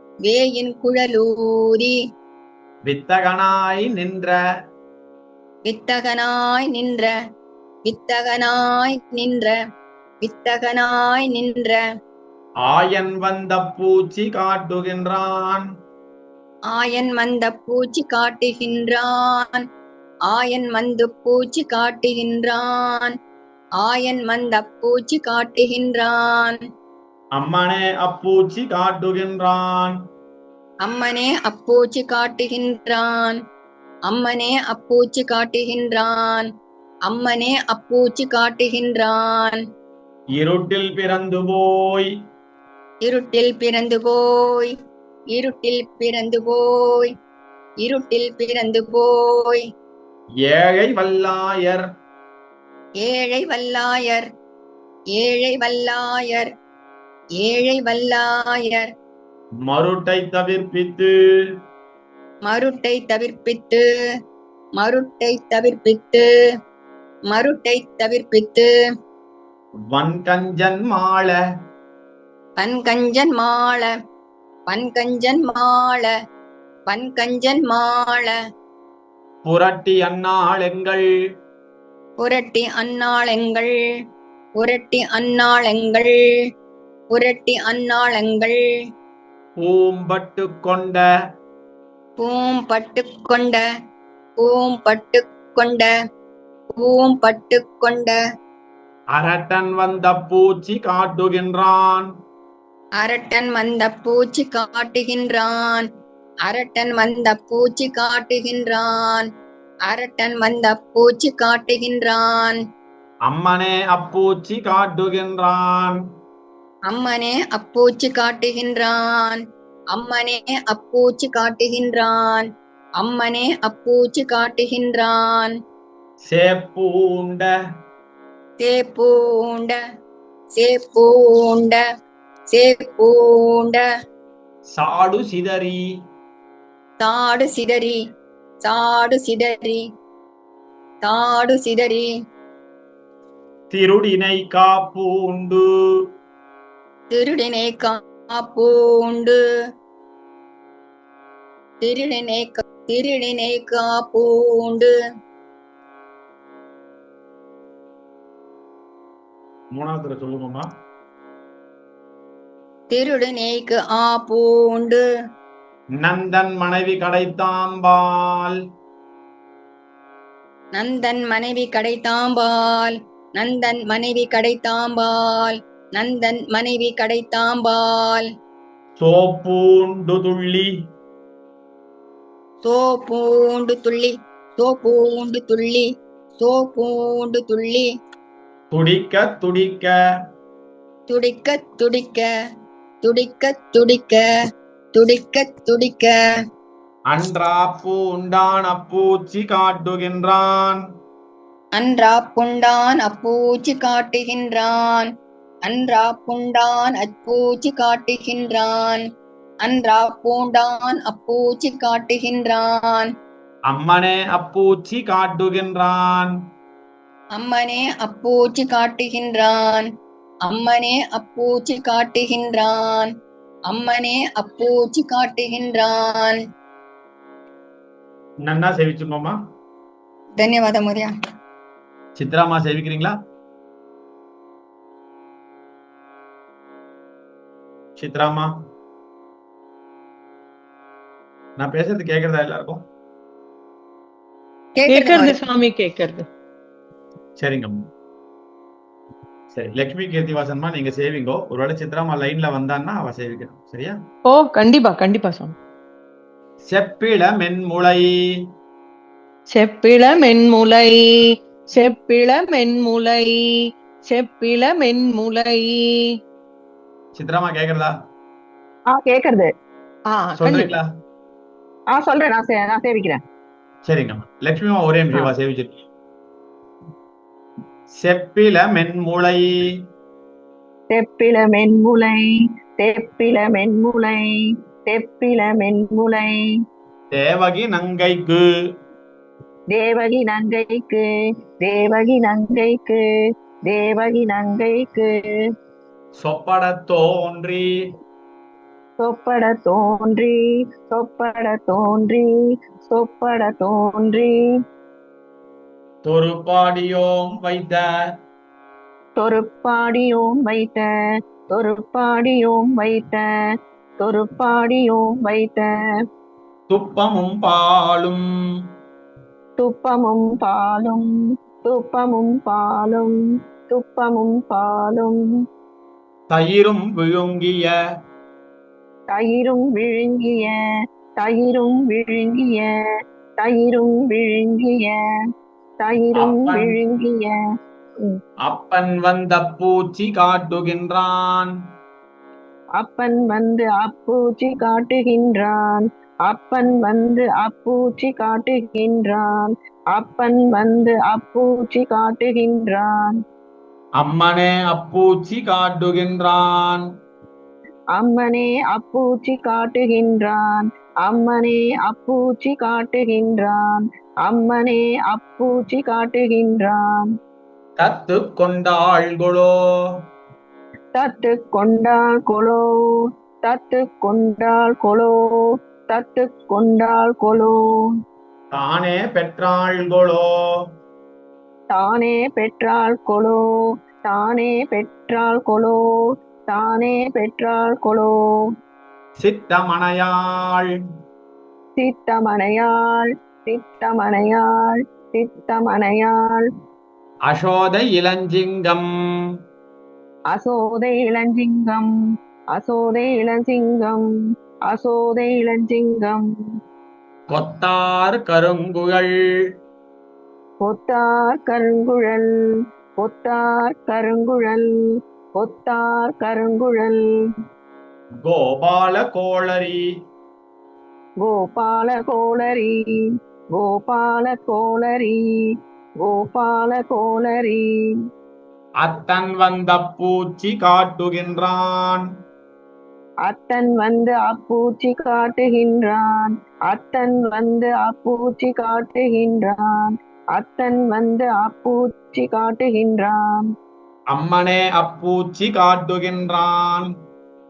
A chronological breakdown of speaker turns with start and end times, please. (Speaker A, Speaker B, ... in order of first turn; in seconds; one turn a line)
Speaker A: 0.2-1.9
Speaker B: 2.8-4.4
Speaker A: 5.6-7.1
Speaker A: 7.8-9.5
Speaker A: 10.2-11.8
Speaker B: 12.6-15.6
Speaker A: 16.7-19.6
Speaker A: 20.3-23.1
Speaker A: 23.8-26.6
Speaker B: 27.3-29.9
Speaker A: 30.8-33.4
Speaker A: 34.1-36.5
Speaker A: 37.1-39.6
Speaker B: 40.4-42.1
Speaker A: 43.0-44.7
Speaker A: 45.3-47.1
Speaker A: 47.8-49.6
Speaker B: 50.5-51.9
Speaker A: 53.0-54.3
Speaker A: 55.2-56.5
Speaker A: 57.4-58.8
Speaker B: 59.7-61.1
Speaker A: 62.4-63.8
Speaker A: 64.8-66.2
Speaker A: 67.3-68.7
Speaker B: 69.9-71.4
Speaker A: 72.6-73.9
Speaker A: 74.7-76.1
Speaker A: 76.9-78.3
Speaker B: 79.4-81.0
Speaker A: 82.2-83.7
Speaker A: 84.6-86.1
Speaker A: 87.1-88.6
Speaker B: 89.6-91.0
Speaker A: 92.2-93.6
Speaker A: 94.4-95.9
Speaker A: 96.8-98.2
Speaker B: 99.2-102.1
Speaker A: 103.0-105.8
Speaker A: 106.5-109.2
Speaker A: 109.9-112.6
Speaker B: 113.3-116.0
Speaker A: 116.9-119.4
Speaker A: 119.9-122.4
Speaker A: 123.0-125.5
Speaker B: 126.2-127.5
Speaker A: 128.6-129.8
Speaker A: 130.6-131.8
Speaker A: 132.5-133.8
Speaker B: 134.8-135.8
Speaker A: 137.0-138.0
Speaker A: 138.6-139.8
Speaker A: 141.0-142.1
Speaker B: 143.7-145.6
Speaker A: 147.1-149.4
Speaker A: 151.8-154.9
Speaker B: 159.7-160.7
Speaker A: 162.9-165.0
Speaker B: 166.0-168.6
Speaker A: 170.7-178.2
Speaker B: 179.0-180.7
Speaker A: 182.6-185.8
Speaker A: 186.4-187.8
Speaker B: 188.7-189.9
Speaker A: 191.1-192.2
Speaker A: 193.0-194.2
Speaker A: 194.9-196.1
Speaker B: 197.1-200.8
Speaker A: 201.8-205.1
Speaker A: 205.7-209.0
Speaker A: 209.6-213.1
Speaker B: 213.7-216.3
Speaker A: 217.4-219.8
Speaker A: 220.5-223.1
Speaker A: 223.7-226.4
Speaker B: 228.4-229.4
Speaker A: 230.4-231.1
Speaker B: 232.2-233.1
Speaker B: 238.0-238.5
Speaker B: 241.6-242.8
Speaker A: 244.8-245.3
Speaker C: 244.9-246.2
Speaker B: 247.4-247.7
Speaker B: 249.5-253.9
Speaker C: 254.2-255.5
Speaker B: 256.6-258.1
Speaker C: 259.5-263.4
Speaker C: 264.1-266.1
Speaker B: 267.1-267.9
Speaker D: 268.9-269.5
Speaker C: 270.1-270.7
Speaker B: 270.4-270.9
Speaker D: 271.9-273.2
Speaker B: 273.8-275.7
Speaker B: 277.9-279.4
Speaker D: 280.9-282.2
Speaker D: 282.8-284.2
Speaker D: 284.9-286.3
Speaker B: 287.1-288.4
Speaker D: 289.7-291.0
Speaker D: 291.6-293.0
Speaker D: 293.7-295.1
Speaker B: 296.2-297.6
Speaker D: 299.0-300.4
Speaker D: 300.9-302.3
Speaker D: 302.9-304.3
Speaker B: 306.0-307.8
Speaker D: 309.2-310.9
Speaker D: 311.5-313.2
Speaker D: 314.0-315.7
Speaker B: 316.7-318.2
Speaker D: 319.6-321.1
Speaker D: 321.6-323.1
Speaker D: 323.7-325.2
Speaker B: 326.3-327.7
Speaker D: 329.1-330.6
Speaker D: 331.2-332.7
Speaker D: 333.4-335.0
Speaker D: 335.8-337.3
Speaker B: 336.1-336.8
Speaker B: 338.4-341.5
Speaker D: 342.8-353.2
Speaker B: 354.0-356.8
Speaker D: 358.0-367.1
Speaker B: 367.8-369.5
Speaker D: 370.9-372.6
Speaker D: 373.4-375.1
Speaker D: 375.9-377.6
Speaker B: 378.5-380.2
Speaker D: 381.7-383.4
Speaker D: 384.1-385.8
Speaker D: 386.5-388.1
Speaker B: 389.2-390.7
Speaker D: 391.8-396.4
Speaker B: 397.3-398.9
Speaker D: 400.3-401.9
Speaker D: 402.6-404.1
Speaker D: 404.7-406.2
Speaker B: 407.3-409.1
Speaker D: 410.6-412.3
Speaker D: 413.0-414.6
Speaker D: 415.4-417.0
Speaker B: 418.2-419.8
Speaker D: 421.2-422.7
Speaker D: 423.6-425.2
Speaker D: 426.0-427.6
Speaker B: 428.8-432.0
Speaker D: 433.3-443.4
Speaker B: 444.1-446.9